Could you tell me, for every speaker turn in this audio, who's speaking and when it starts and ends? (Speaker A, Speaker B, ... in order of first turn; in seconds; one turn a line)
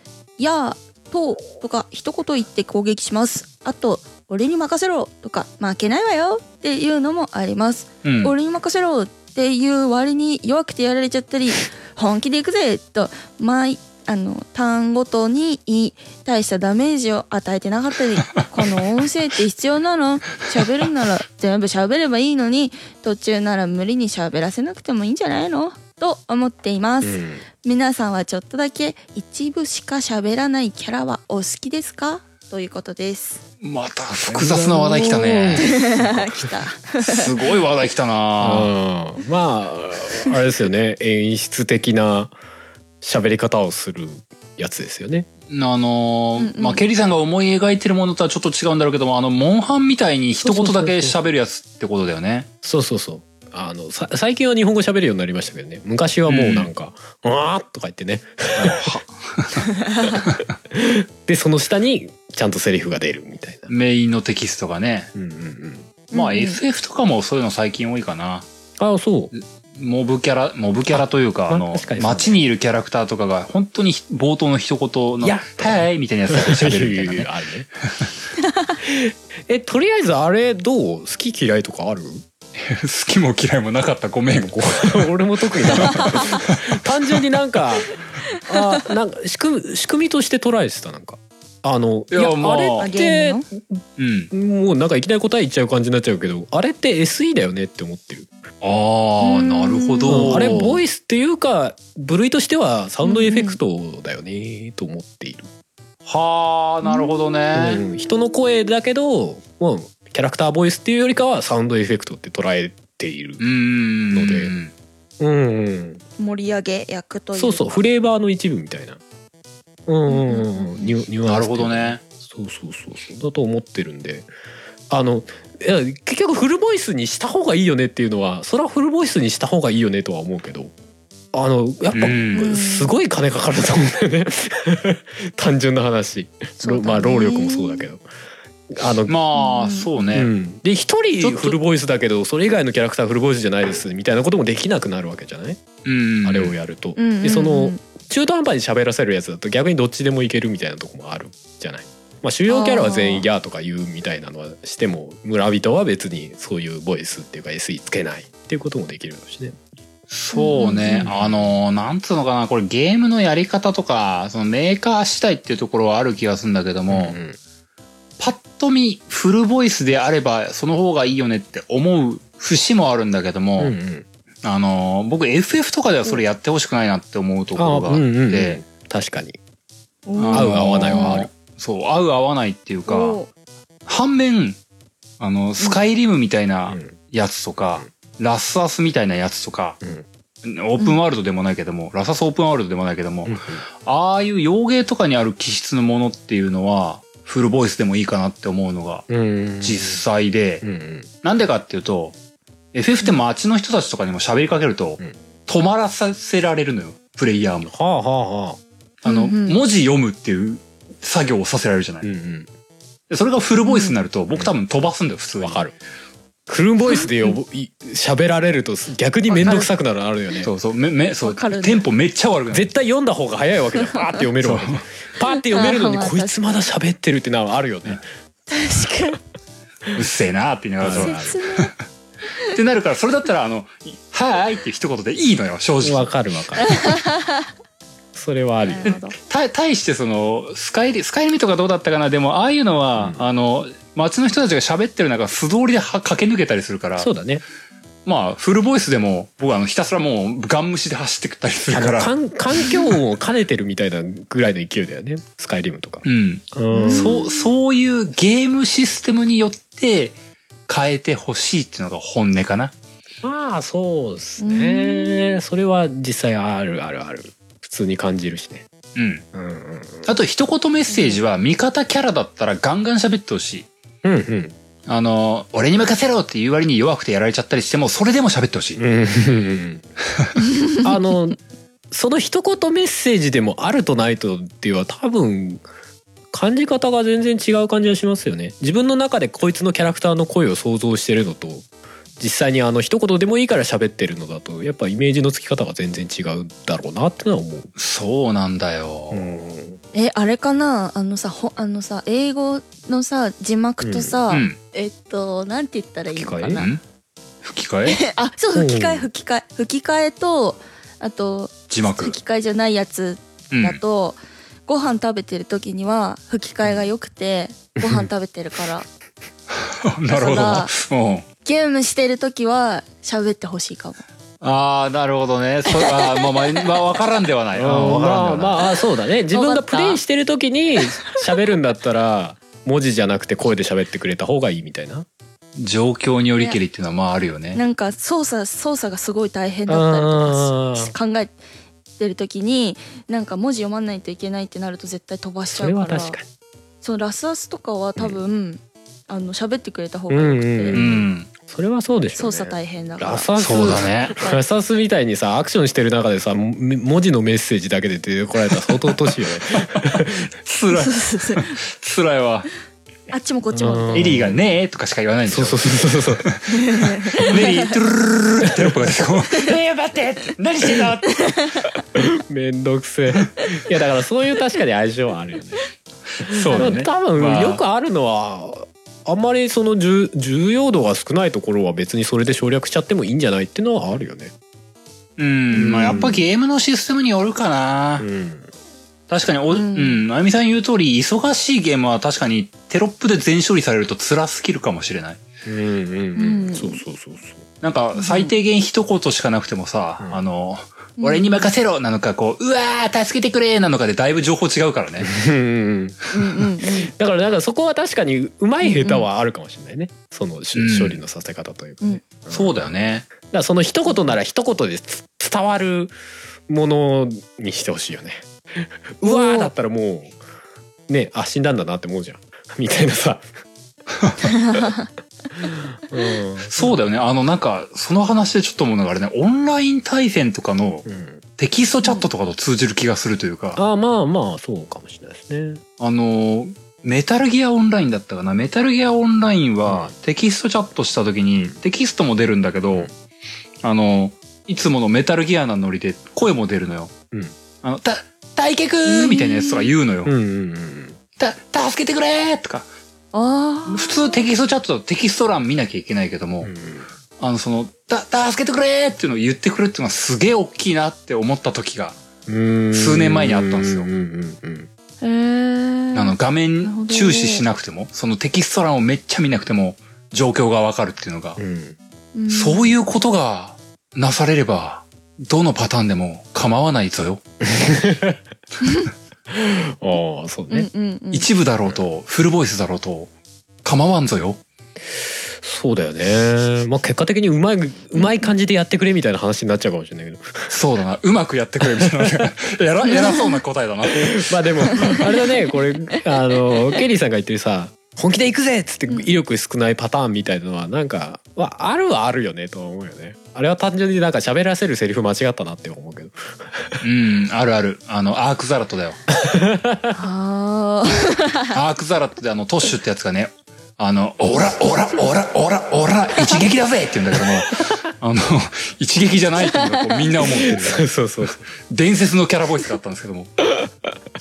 Speaker A: 0.4-33.4
Speaker B: 8.0-8.3
Speaker C: 27.0-27.4
Speaker B: 33.6-35.8
Speaker C: 34.2-36.5
Speaker A: 35.6-37.3
Speaker B: 37.0-38.7
Speaker C: 38.4-42.4
Speaker C: 43.0-45.3
Speaker B: 45.5-52.5
Speaker A: 46.4-46.8
Speaker C: 50.4-51.2
Speaker C: 52.6-59.0
Speaker B: 56.3-56.7
Speaker B: 58.5-59.6
Speaker A: 59.8-60.2
Speaker C: 60.7-63.7
Speaker B: 63.7-65.1
Speaker C: 65.1-65.9
Speaker A: 66.1-66.6
Speaker B: 66.1-68.5
Speaker C: 68.8-69.3
Speaker B: 69.3-77.3
Speaker C: 70.9-72.4
Speaker C: 75.2-77.7
Speaker A: 78.4-78.8
Speaker C: 78.8-82.2
Speaker B: 82.6-85.1
Speaker C: 84.3-98.3
Speaker A: 85.8-86.4
Speaker B: 85.8-86.8
Speaker A: 88.3-88.8
Speaker B: 92.1-92.9
Speaker A: 92.8-93.4
Speaker B: 94.0-94.3
Speaker B: 98.6-100.8
Speaker A: 99.2-100.7
Speaker C: 100.1-105.5
Speaker A: 103.0-103.6
Speaker B: 106.0-107.8
Speaker A: 106.8-107.1
Speaker C: 107.5-113.4
Speaker B: 113.4-114.7
Speaker C: 114.1-114.5
Speaker C: 115.2-116.0
Speaker A: 116.2-117.8
Speaker C: 117.3-119.0
Speaker C: 119.9-124.3
Speaker A: 120.1-120.9
Speaker B: 121.2-122.0
Speaker C: 124.9-130.7
Speaker C: 131.3-138.0
Speaker B: 131.9-132.5
Speaker A: 132.3-132.9
Speaker A: 136.6-137.9
Speaker C: 138.7-139.1
Speaker B: 139.1-140.3
Speaker A: 139.3-140.1
Speaker C: 140.1-145.7
Speaker B: 141.2-141.6
Speaker B: 145.8-146.6
Speaker C: 146.2-159.6
Speaker A: 146.9-147.8
Speaker A: 152.5-153.3
Speaker B: 160.1-167.2
Speaker A: 160.3-161.1
Speaker C: 160.9-161.6
Speaker C: 166.9-167.4
Speaker B: 168.2-173.8
Speaker C: 173.6-174.1
Speaker B: 174.4-178.6
Speaker C: 177.6-179.4
Speaker A: 180.1-181.2
Speaker B: 180.2-183.2
Speaker C: 180.3-181.3
Speaker A: 182.9-183.3
Speaker B: 183.9-184.6
Speaker B: 185.2-189.8
Speaker C: 186.7-187.0
Speaker C: 189.8-190.1
Speaker B: 190.4-199.1
Speaker C: 193.2-193.6
Speaker C: 199.1-200.0
Speaker B: 199.6-200.6
Speaker C: 200.6-201.1
Speaker B: 201.2-202.2
Speaker B: 202.7-207.7
Speaker C: 207.7-208.6
Speaker B: 209.0-212.1
Speaker A: 209.0-209.6
Speaker C: 212.0-212.5
Speaker B: 213.1-215.6
Speaker A: 213.6-214.0
Speaker C: 215.4-215.7
Speaker C: 216.5-220.5
Speaker A: 216.9-217.3
Speaker A: 219.3-219.7
Speaker B: 220.4-222.7
Speaker A: 221.2-221.8
Speaker C: 222.5-228.0
Speaker B: 224.4-224.8
Speaker A: 225.3-226.4
Speaker A: 228.5-229.2
Speaker B: 229.9-231.7
Speaker C: 230.8-231.4
Speaker A: 230.9-231.7
Speaker B: 232.5-236.1
Speaker C: 235.8-236.9
Speaker A: 236.7-237.4
Speaker C: 238.1-238.9
Speaker A: 238.6-239.1
Speaker B: 238.8-247.1
Speaker C: 243.0-243.2
Speaker C: 247.0-247.4
Speaker B: 248.1-252.8
Speaker C: 251.7-257.2
Speaker B: 256.0-260.2
Speaker A: 256.7-257.5
Speaker B: 260.7-262.7
Speaker C: 263.2-268.7
Speaker A: 264.4-265.4
Speaker B: 268.9-269.2
Speaker C: 269.3-270.1
Speaker B: 270.0-273.7
Speaker A: 270.9-271.2
Speaker C: 274.0-274.6
Speaker B: 274.9-278.8
Speaker C: 278.8-279.8
Speaker A: 280.5-280.8
Speaker C: 280.8-281.4
Speaker C: 281.9-285.6
Speaker C: 286.3-297.7
Speaker B: 297.8-299.4
Speaker C: 299.1-299.8
Speaker A: 299.9-306.7
Speaker C: 303.8-304.2
Speaker B: 304.3-304.6
Speaker C: 306.1-306.6
Speaker B: 306.5-306.8
Speaker B: 307.4-308.0
Speaker A: 307.9-318.9
Speaker C: 308.5-309.1
Speaker B: 311.7-312.2
Speaker B: 313.5-313.8
Speaker C: 317.8-318.1
Speaker B: 319.7-321.2
Speaker A: 320.1-320.7
Speaker A: 321.4-324.0
Speaker B: 324.4-328.6
Speaker A: 325.7-326.4
Speaker C: 327.5-335.1
Speaker A: 329.3-330.0
Speaker B: 335.6-337.6
Speaker A: 337.5-341.4
Speaker C: 339.7-340.9
Speaker A: 342.0-346.2
Speaker C: 345.5-346.2
Speaker A: 346.8-350.8
Speaker C: 350.1-360.3
Speaker B: 350.7-351.3
Speaker A: 352.1-354.4
Speaker B: 353.4-354.1
Speaker B: 359.8-362.5
Speaker A: 360.7-361.6
Speaker A: 363.1-364.1
Speaker C: 363.5-364.4
Speaker B: 363.9-366.5
Speaker C: 365.3-366.2
Speaker A: 366.5-367.7
Speaker B: 367.1-371.4
Speaker A: 371.1-371.7
Speaker C: 371.9-375.6
Speaker B: 376.2-377.6
Speaker C: 376.3-384.3
Speaker A: 376.5-376.8
Speaker B: 385.2-388.1
Speaker C: 385.5-386.2
Speaker C: 388.0-388.5
Speaker B: 389.1-395.2
Speaker A: 389.5-390.0
Speaker C: 395.4-397.4
Speaker A: 396.1-396.8
Speaker B: 397.6-405.1
Speaker A: 397.9-398.3
Speaker A: 401.0-401.5
Speaker C: 405.0-406.0
Speaker A: 406.1-406.9
Speaker C: 406.6-415.9
Speaker A: 408.6-409.1
Speaker B: 410.5-411.0
Speaker B: 412.3-413.1
Speaker C: 416.5-420.1
Speaker A: 419.0-419.5
Speaker C: 420.9-423.3
Speaker A: 424.3-424.9
Speaker C: 425.3-426.8
Speaker B: 426.5-430.9
Speaker C: 430.8-431.2
Speaker B: 431.4-433.6
Speaker C: 433.6-435.6
Speaker B: 435.8-442.9
Speaker C: 439.6-439.9
Speaker B: 443.6-446.9
Speaker B: 447.6-450.1
Speaker A: 448.8-449.7
Speaker C: 450.0-451.0
Speaker B: 451.2-452.7
Speaker A: 453.1-454.1
Speaker B: 453.7-456.5
Speaker C: 456.4-456.9
Speaker B: 457.2-462.0
Speaker C: 462.2-464.7
Speaker B: 462.7-463.9
Speaker A: 465.0-467.4
Speaker B: 465.9-471.4
Speaker C: 471.4-471.8
Speaker A: 472.1-472.7
Speaker B: 472.3-477.2
Speaker C: 477.4-478.2
Speaker A: 478.6-478.9
Speaker C: 479.3-480.7
Speaker A: 480.5-481.3
Speaker B: 481.1-483.1
Speaker B: 483.6-484.4
Speaker C: 485.4-490.6
Speaker A: 487.9-488.2
Speaker B: 490.5-494.5
Speaker C: 491.6-492.3
Speaker A: 492.8-493.4
Speaker C: 493.9-506.8
Speaker A: 494.7-495.1
Speaker B: 506.8-509.0
Speaker C: 509.1-509.9
Speaker A: 509.9-511.5
Speaker B: 511.5-520.9
Speaker A: 519.4-520.2
Speaker C: 520.2-521.5
Speaker B: 521.6-523.3
Speaker C: 523.5-523.9